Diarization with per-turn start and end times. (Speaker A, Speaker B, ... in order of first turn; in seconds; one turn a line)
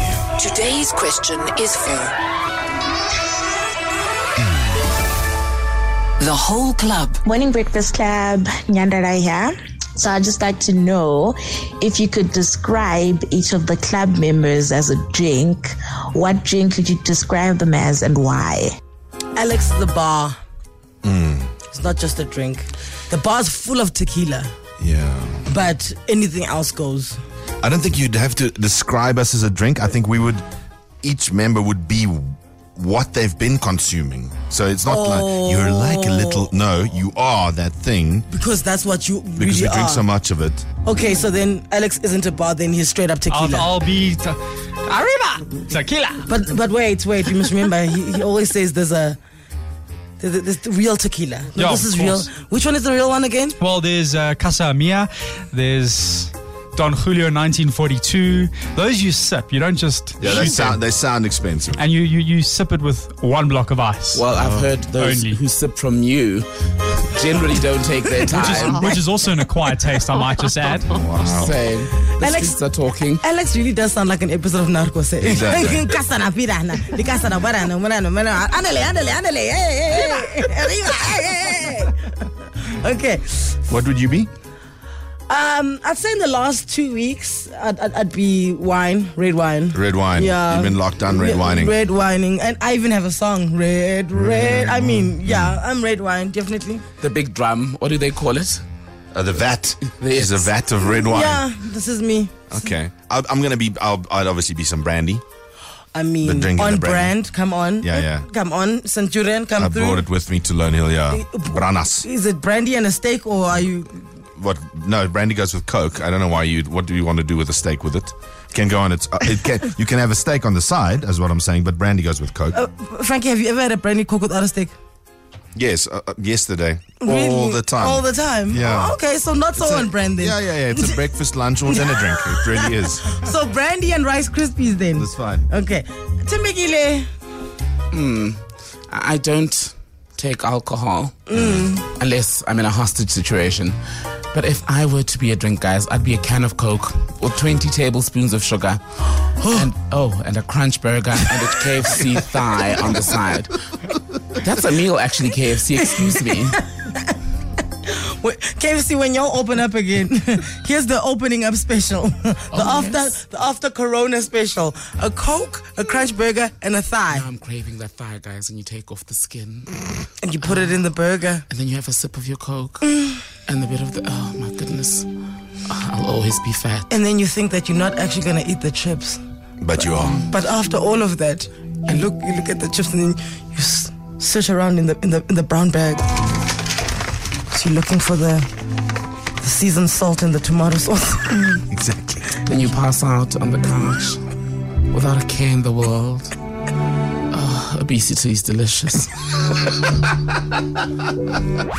Speaker A: 0.4-2.1
Speaker A: 6.2-7.2
Speaker B: 7.2-18.8
Speaker C: 19.3-20.4
Speaker D: 21.0-21.5
Speaker C: 21.7-24.5
Speaker D: 24.8-25.4
Speaker C: 25.4-27.2
Speaker D: 27.6-30.4
Speaker D: 31.0-38.3
Speaker C: 34.9-36.5
Speaker C: 38.3-40.1
Speaker D: 39.4-40.6
Speaker C: 40.8-43.7
Speaker E: 43.3-46.3
Speaker C: 46.3-49.2
Speaker C: 50.2-53.6
Speaker E: 51.5-52.2
Speaker E: 53.6-60.8
Speaker D: 60.2-61.8
Speaker E: 61.7-64.2
Speaker F: 64.1-68.9
Speaker D: 64.3-64.7
Speaker E: 64.9-65.4
Speaker E: 68.2-70.9
Speaker D: 70.9-71.5
Speaker F: 71.3-73.2
Speaker C: 72.2-72.5
Speaker C: 73.2-82.1
Speaker D: 75.2-76.0
Speaker C: 82.6-83.6
Speaker D: 83.7-84.3
Speaker C: 85.3-96.8
Speaker D: 89.7-91.7
Speaker D: 94.2-95.5
Speaker F: 97.0-98.6
Speaker D: 99.1-101.5
Speaker F: 99.9-100.5
Speaker C: 100.8-102.3
Speaker D: 102.5-105.2
Speaker C: 105.9-110.1
Speaker D: 106.2-107.2
Speaker D: 107.8-108.3
Speaker D: 109.6-112.1
Speaker C: 111.1-114.0
Speaker D: 114.3-122.6
Speaker C: 122.5-124.7
Speaker D: 125.5-129.0
Speaker C: 127.0-131.0
Speaker D: 129.6-133.2
Speaker C: 131.7-137.1
Speaker D: 134.9-135.5
Speaker F: 137.9-143.8
Speaker C: 141.3-141.9
Speaker D: 141.3-141.7
Speaker F: 144.3-153.5
Speaker F: 154.3-156.6
Speaker C: 155.9-157.0
Speaker C: 157.8-167.3
Speaker F: 162.5-163.1
Speaker F: 167.1-169.8
Speaker C: 170.2-171.4
Speaker F: 170.4-170.7
Speaker F: 171.5-172.8
Speaker C: 172.8-173.3
Speaker F: 173.4-175.1
Speaker F: 175.7-176.9
Speaker C: 176.9-179.2
Speaker D: 179.6-180.3
Speaker C: 179.8-186.1
Speaker C: 187.5-188.5
Speaker C: 189.4-191.6
Speaker D: 191.7-192.4
Speaker F: 192.4-194.2
Speaker F: 194.9-196.3
Speaker F: 197.3-199.4